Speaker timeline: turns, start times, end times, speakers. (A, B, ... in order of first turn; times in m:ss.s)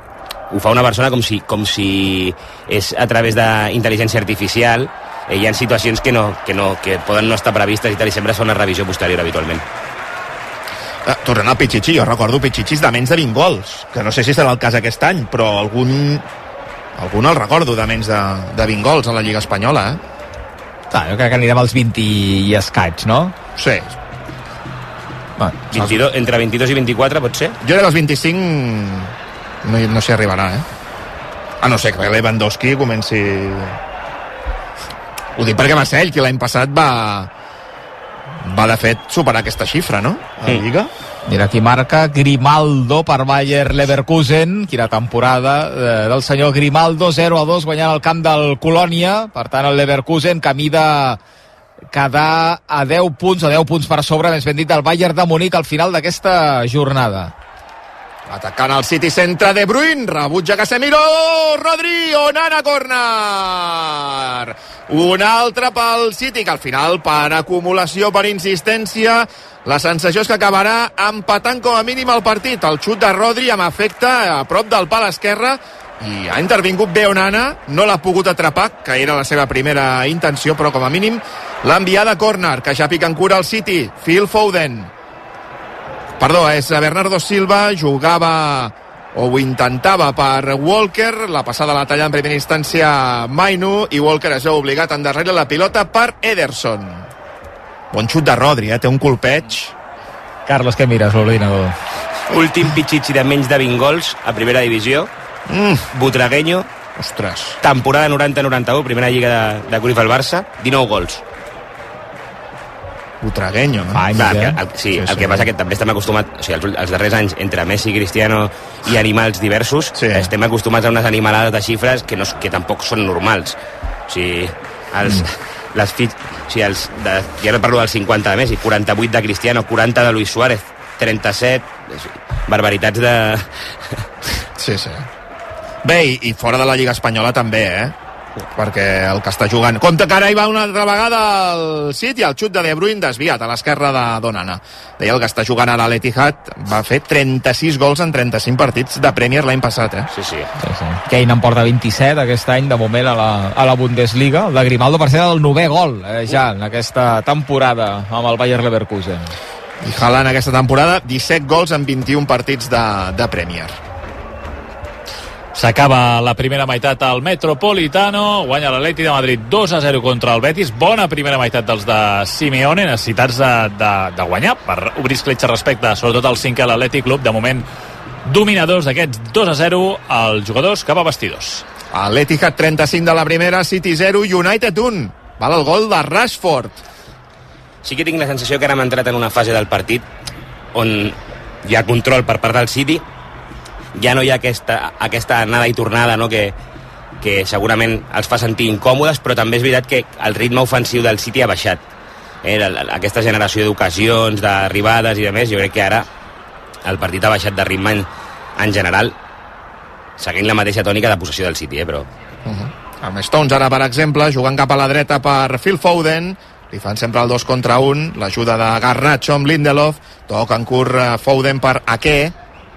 0:00.5-0:09.6 A
0:11.0-0:16.2 B
0:17.0-0:20.0 B
0:20.9-0:23.3 C
0:23.6-0:23.9 B
0:25.4-0:25.9 C
0:25.7-0:27.6 A
0:27.6-0:29.1 B
0:29.6-0:30.6 B
0:31.6-0:33.8 B
0:35.4-0:37.3 B
0:38.4-0:40.9 B
0:41.3-0:51.2 C
0:51.9-0:57.3 C
0:58.3-1:24.9 B
1:26.2-1:37.1 B
1:37.9-1:39.7 B
1:40.4-1:41.7 C
1:42.3-1:45.1 A
1:45.5-1:45.9 B
1:45.9-1:46.7 A
1:47.0-1:47.6 B
1:47.6-1:51.2 A
1:53.2-1:54.1 B
1:53.9-1:54.6 C
1:54.1-2:14.0 A
1:55.0-1:55.4 B
2:00.0-2:00.3 B
2:14.6-2:15.0 B
2:15.8-2:17.9 B
2:18.6-2:30.1 B
2:30.1-2:30.5 A
2:30.6-2:39.3 C
2:39.8-2:43.7 B
2:45.5-2:57.6 D
2:58.2-3:01.6 D
3:01.9-3:06.8 B
3:07.8-3:10.0 A
3:10.7-3:13.0 A
3:13.9-3:16.5 A
3:17.2-3:21.8 A
3:22.4-3:26.1 A
3:26.8-3:29.2 A
3:30.2-3:32.1 A
3:32.4-3:42.3 B